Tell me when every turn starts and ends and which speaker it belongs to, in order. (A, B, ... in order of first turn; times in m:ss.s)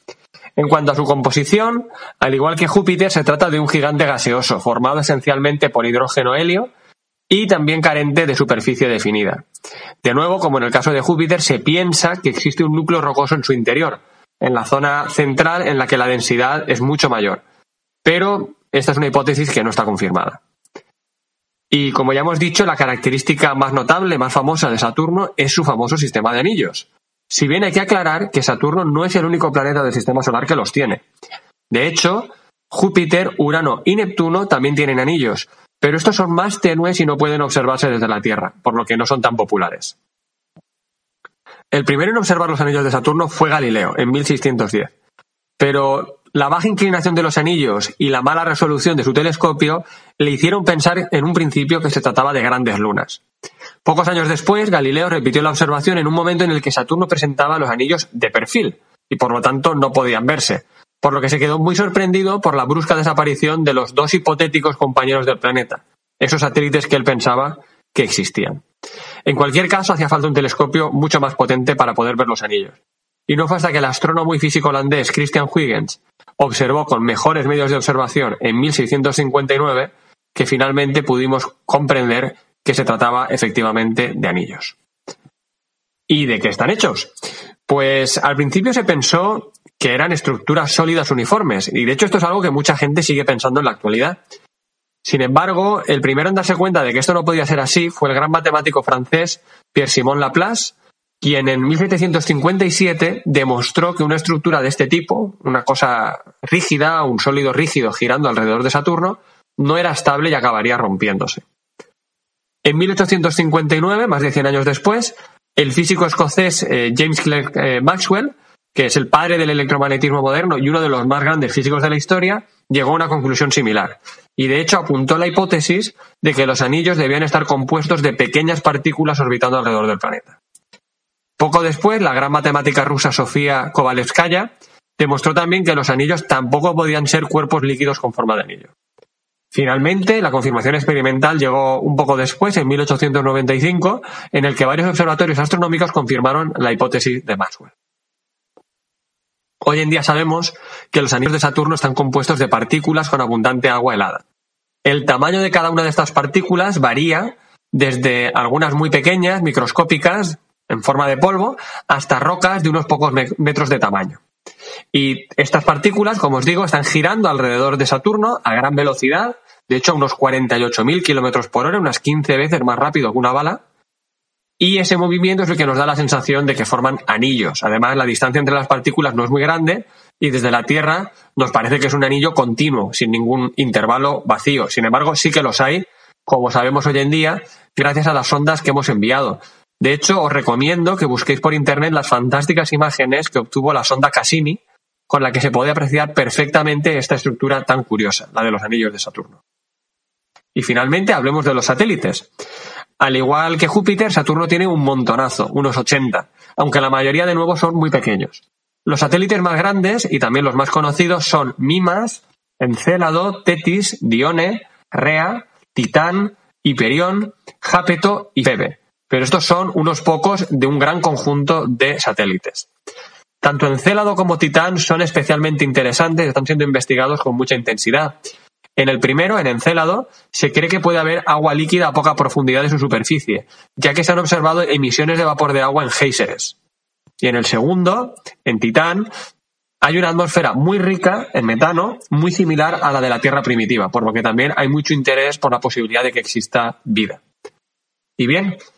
0:00.6-0:06.7 A
0:07.3-0:09.4 A
0:10.0-0:17.4 A
0:18.0-0:20.4 A
0:21.7-0:31.0 A
0:31.7-0:39.9 A
0:41.7-0:44.9 A
0:45.6-0:53.2 A
0:53.8-1:08.6 A
1:09.2-1:12.8 A
1:13.3-1:24.7 A
1:26.1-1:27.1 A
1:27.7-1:34.2 A
1:35.0-1:51.4 A
1:52.6-2:10.4 A
2:11.4-2:18.7 A
2:19.5-2:27.7 A
2:29.6-2:34.2 A
2:34.8-2:44.2 A
2:44.9-2:53.6 A
2:54.6-3:19.4 A
3:20.5-3:22.3 A
3:23.0-3:42.7 A
3:43.4-3:48.2 A
3:48.8-3:56.6 A
3:57.2-3:59.1 A
3:59.8-4:07.2 A
4:08.2-4:08.6 A